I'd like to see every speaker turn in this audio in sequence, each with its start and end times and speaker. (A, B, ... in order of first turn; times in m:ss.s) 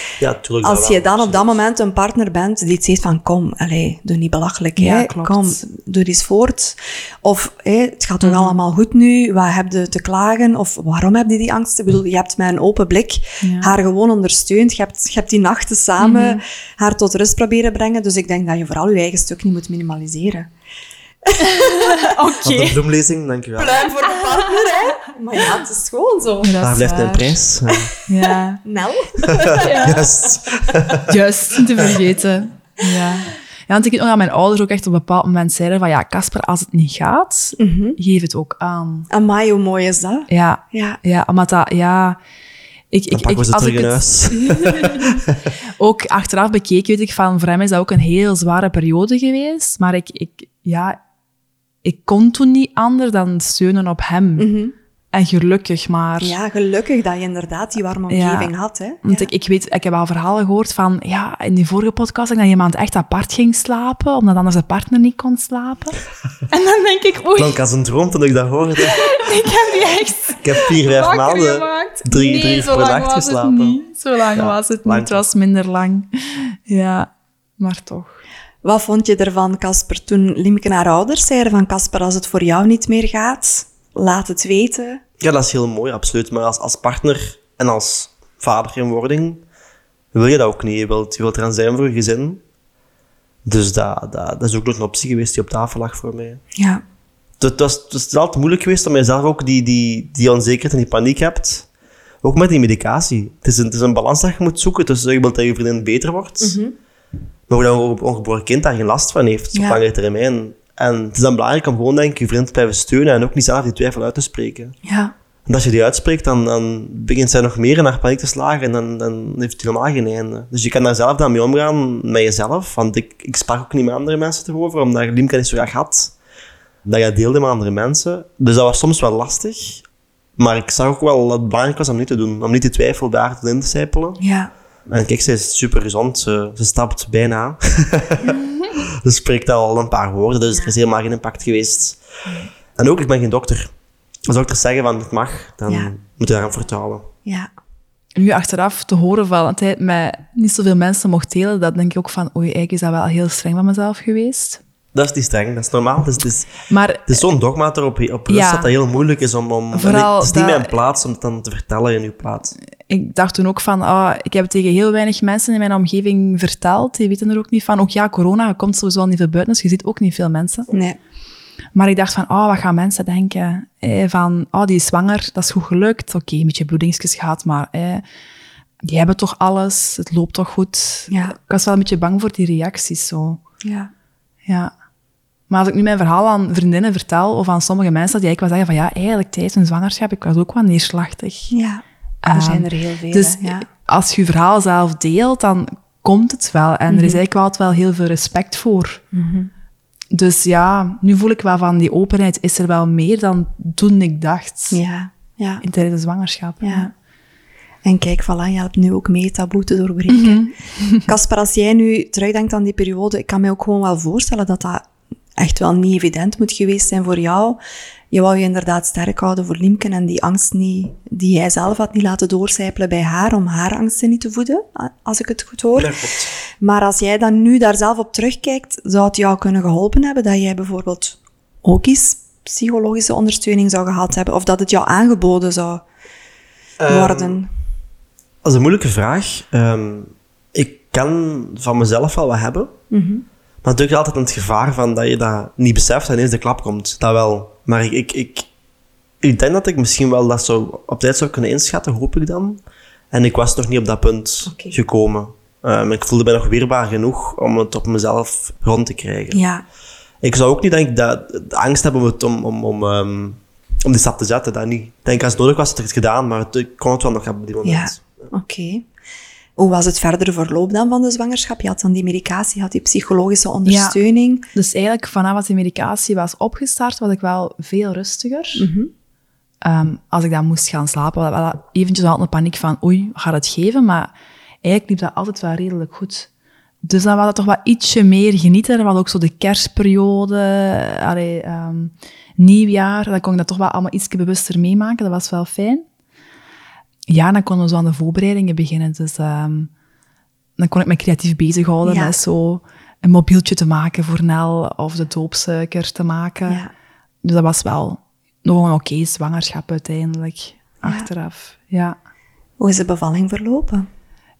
0:00.2-0:01.5 A
0:00.6-0:20.5 B
0:04.8-0:05.6 C
0:08.2-0:08.6 C
0:13.4-0:13.7 C
0:16.0-0:16.4 C
0:21.2-0:22.0 B
0:21.4-0:22.8 C
0:22.4-0:23.9 A
0:23.6-0:26.6 B
0:24.1-0:25.0 C
0:26.4-0:27.4 C
0:26.6-0:27.9 A
0:28.0-0:28.6 C
0:28.6-0:29.9 B
0:29.3-0:31.1 A
0:29.5-0:30.0 C
0:31.1-0:39.1 C
0:37.6-0:38.0 B
0:39.1-0:41.0 B
0:40.3-0:42.2 C
0:42.9-0:45.2 C
0:43.1-0:45.3 A
0:45.8-0:51.0 C
0:51.8-0:54.5 C
0:54.4-0:54.7 B
0:55.1-0:56.4 C
0:56.2-0:59.3 B
0:58.1-0:58.5 C
0:59.0-1:06.0 C
1:06.5-1:07.6 C
1:07.4-1:09.2 A
1:08.8-1:18.2 C
1:10.4-1:13.8 A
1:14.3-1:15.2 A
1:18.6-1:25.0 B
1:25.2-1:29.4 A
1:30.1-1:32.4 A
1:33.4-1:36.4 A
1:36.6-1:36.8 B
1:37.4-1:41.7 A
1:42.2-1:46.6 A
1:46.4-1:46.7 B
1:47.5-1:54.7 A
1:49.5-1:49.8 B
1:54.8-1:55.1 B
1:55.4-2:06.1 A
2:06.8-2:09.8 A
2:10.4-2:14.2 A
2:14.2-2:14.5 B
2:14.9-2:22.0 A
2:22.7-2:23.7 A
2:24.2-2:27.1 A
2:28.2-2:34.6 C
2:34.9-2:36.5 A
2:36.7-2:37.2 C
2:37.1-2:42.5 A
2:38.3-2:38.7 C
2:39.7-2:40.7 C
2:42.9-2:50.7 C
2:50.7-2:51.0 B
2:51.7-2:58.0 C
2:58.8-3:03.4 C
3:01.1-3:01.4 B
3:03.6-3:03.9 B
3:04.4-3:04.7 C
3:05.5-3:11.5 C
3:11.5-3:13.6 B
3:12.2-3:19.0 C
3:16.9-3:17.2 B
3:19.1-3:19.5 B
3:20.1-3:24.8 C
3:24.7-3:25.6 B
3:25.6-3:26.9 C
3:26.6-3:26.9 B
3:27.8-3:34.8 B
3:30.1-3:31.1 C
3:35.4-3:37.6 B
3:38.1-3:46.0 B
3:45.7-3:46.3 A
3:46.6-3:55.8 B
3:56.8-3:57.4 A
3:56.9-3:57.5 B
3:58.4-4:02.8 A
4:02.9-4:03.2 B
4:03.6-4:08.5 A
4:09.2-4:19.4 A
4:14.5-4:14.8 B
4:19.3-4:19.6 B
4:20.2-4:28.2 A
4:27.6-4:28.8 B
4:29.6-4:34.5 B
4:33.6-4:34.0 C
4:34.5-4:38.6 C
4:38.6-4:38.9 B
4:39.6-4:44.1 C
4:44.6-4:46.3 C
4:46.8-4:55.8 C
4:57.1-4:59.7 C
5:00.6-5:06.6 C
5:01.8-5:02.1 B
5:07.2-5:12.0 C
5:12.6-5:13.9 B